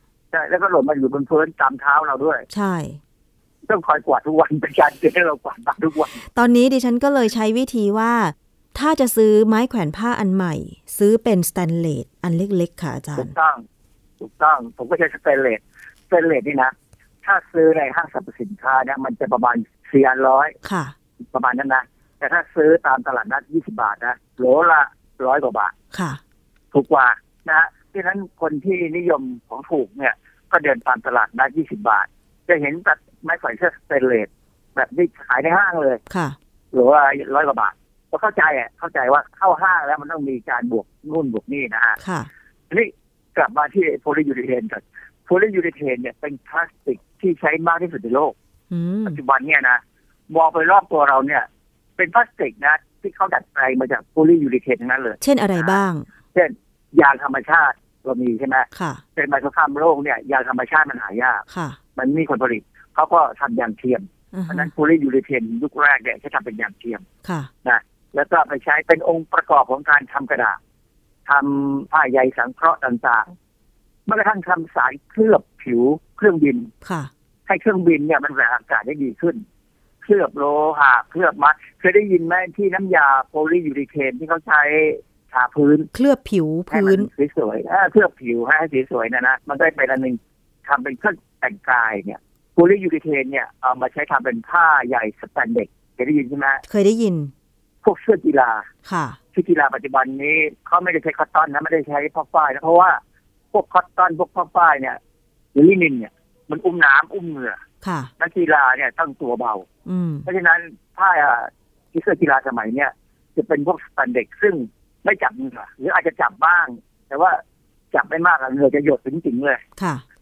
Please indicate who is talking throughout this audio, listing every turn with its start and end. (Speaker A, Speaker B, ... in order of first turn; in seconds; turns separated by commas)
Speaker A: 0.3-2.5, Speaker B: 2.5-3.0, Speaker A: 3.6-6.2, Speaker B: 6.3-13.3, Speaker A: 13.2-13.6, Speaker A: 14.2-20.6, Speaker B: 20.6-20.9, Speaker A: 21.3-25.7, Speaker B: 25.9-26.2, Speaker A: 26.7-36.0, Speaker B: 36.1-36.4, Speaker A: 36.7-42.0, Speaker B: 42.0-42.3, Speaker A: 42.7-48.3, Speaker B: 48.7-49.2, Speaker A: 49.0-51.5, Speaker A: 52.0-55.8, Speaker B: 55.2-56.0, Speaker A: 56.3-67.0, Speaker B: 58.7-59.0, Speaker B: 61.5-61.8, Speaker B: 64.3-64.7, Speaker B: 67.2-67.5, Speaker A: 67.6-70.6, Speaker A: 71.2-73.3, Speaker A: 74.0-76.7, Speaker B: 76.8-77.1, Speaker A: 77.5-79.4, Speaker A: 80.0-85.9, Speaker B: 85.9-87.1, Speaker A: 86.7-96.6, Speaker B: 96.7-97.3, Speaker A: 97.8-98.7, Speaker B: 98.8-99.2, Speaker A: 99.3-103.0, Speaker A: 103.5-105.0, Speaker A: 105.5-107.6, Speaker B: 107.8-108.1, Speaker A: 108.2-109.7, Speaker B: 109.8-110.2, Speaker A: 110.2-117.4, Speaker A: 117.9-119.6, Speaker B: 119.8-120.0